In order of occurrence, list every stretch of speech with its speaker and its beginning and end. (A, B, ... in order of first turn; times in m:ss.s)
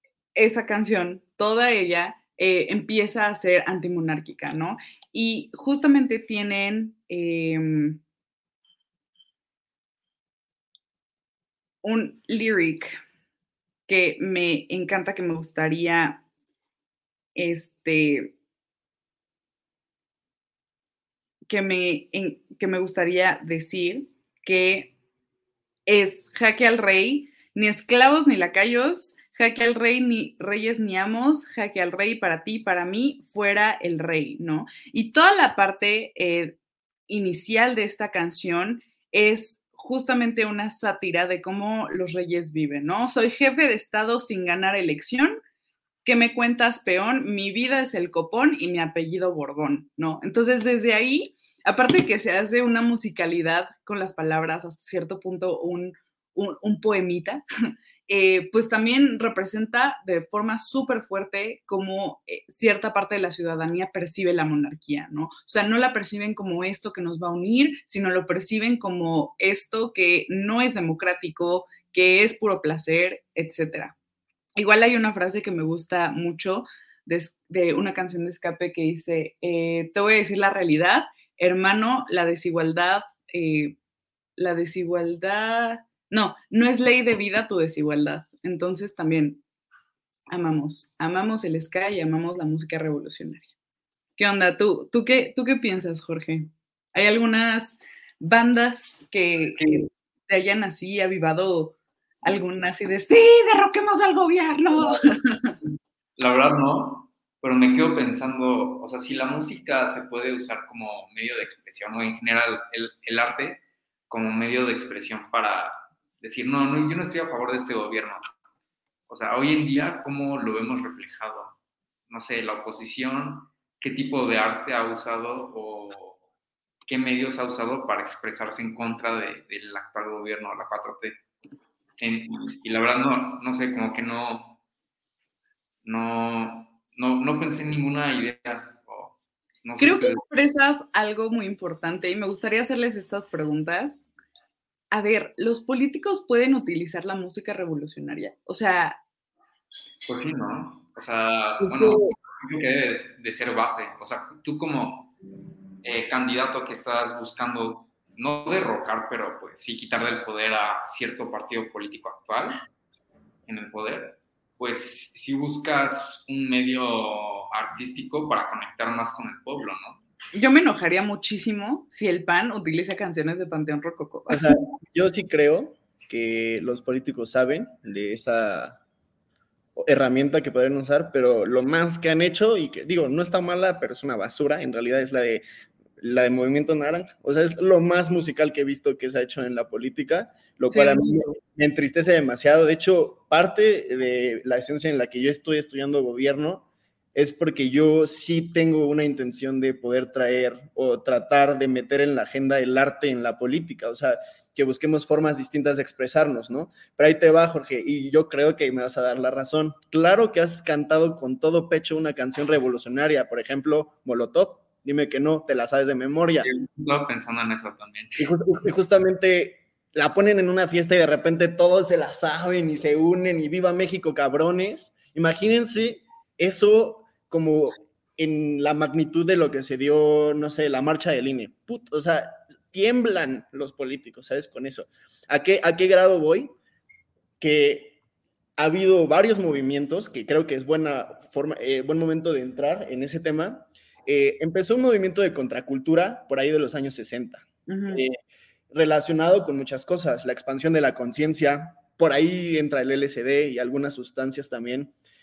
0:00.3-0:08.0 A
0:11.8-0:13.0 A
0:13.9-0:16.2 A
0:17.4-0:18.3 A
0:21.5-0:24.9 A
0:25.9-0:36.6 A
0:37.1-0:45.4 A
0:46.0-0:57.4 A
0:58.1-1:13.9 A
1:14.6-1:23.8 A
1:24.4-1:29.4 A
1:30.3-1:33.5 A
1:34.2-1:45.5 A
1:39.5-1:39.9 B
1:44.7-1:45.1 B
1:46.2-1:58.2 B
1:59.1-2:01.6 B
2:02.1-2:06.2 B
2:06.9-2:11.2 B
2:12.0-2:14.6 B
2:15.8-2:20.2 B
2:19.8-2:24.1 A
2:24.9-2:29.0 A
2:30.0-2:35.1 B
2:35.8-2:42.6 B
2:43.5-2:50.0 B
2:50.3-2:54.5 A
2:54.3-2:58.8 C
2:59.8-3:05.4 C
3:06.0-3:36.5 C
3:10.7-3:11.4 A
3:36.4-3:38.3 B
3:38.2-3:56.5 C
3:57.4-3:58.0 C
3:58.6-4:08.2 C
4:07.7-4:08.0 A
4:08.7-4:14.9 C